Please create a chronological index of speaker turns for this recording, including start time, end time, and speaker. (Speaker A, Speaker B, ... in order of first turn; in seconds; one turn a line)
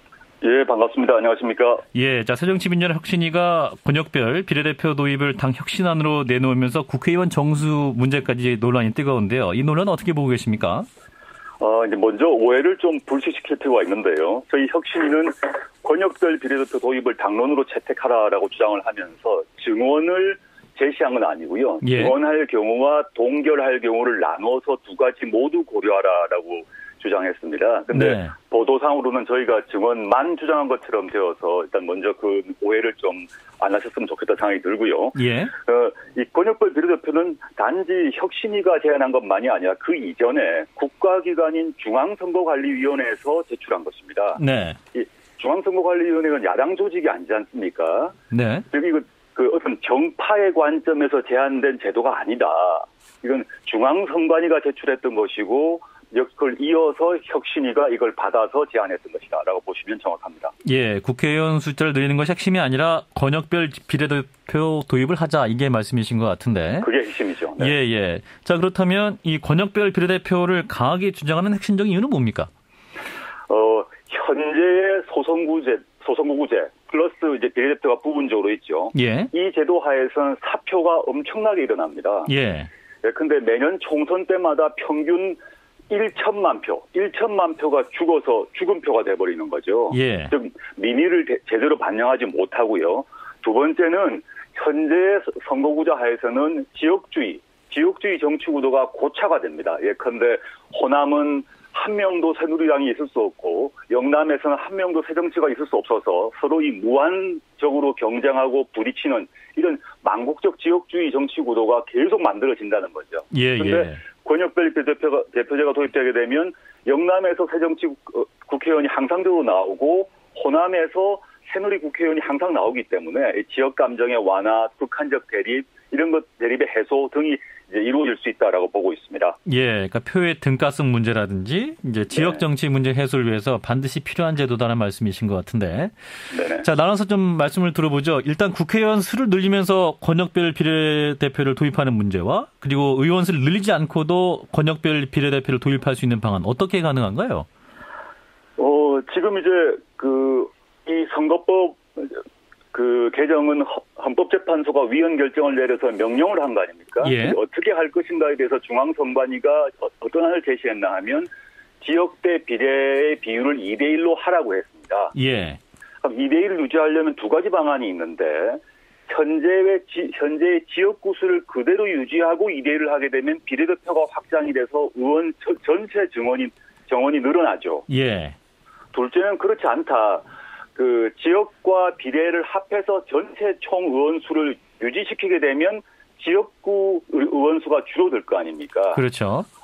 Speaker A: 0.4-1.8
Speaker B: 1.9-10.9
Speaker A: 11.6-44.4
Speaker B: 21.8-22.1
Speaker B: 27.9-28.3
Speaker B: 35.1-35.5
Speaker B: 44.4-44.8
Speaker A: 44.9-48.1
Speaker B: 48.3-48.6
Speaker A: 48.7-60.5
Speaker B: 60.6-66.9
Speaker A: 66.8-67.8
Speaker B: 67.6-72.5
Speaker A: 73.5-82.3
Speaker B: 78.9-79.3
Speaker B: 82.3-82.7
Speaker A: 83.0-85.4
Speaker A: 85.9-129.4
Speaker B: 89.9-90.3
Speaker B: 113.3-114.0
Speaker B: 129.5-147.5
Speaker A: 132.1-132.4
Speaker A: 136.3-136.7
Speaker A: 148.6-152.2
Speaker A: 152.7-161.3
Speaker B: 157.0-157.4
Speaker A: 161.8-165.1
Speaker B: 165.1-165.6
Speaker A: 166.0-177.8
Speaker B: 177.9-178.3
Speaker A: 178.9-180.2
Speaker A: 180.8-189.0
Speaker B: 188.9-189.5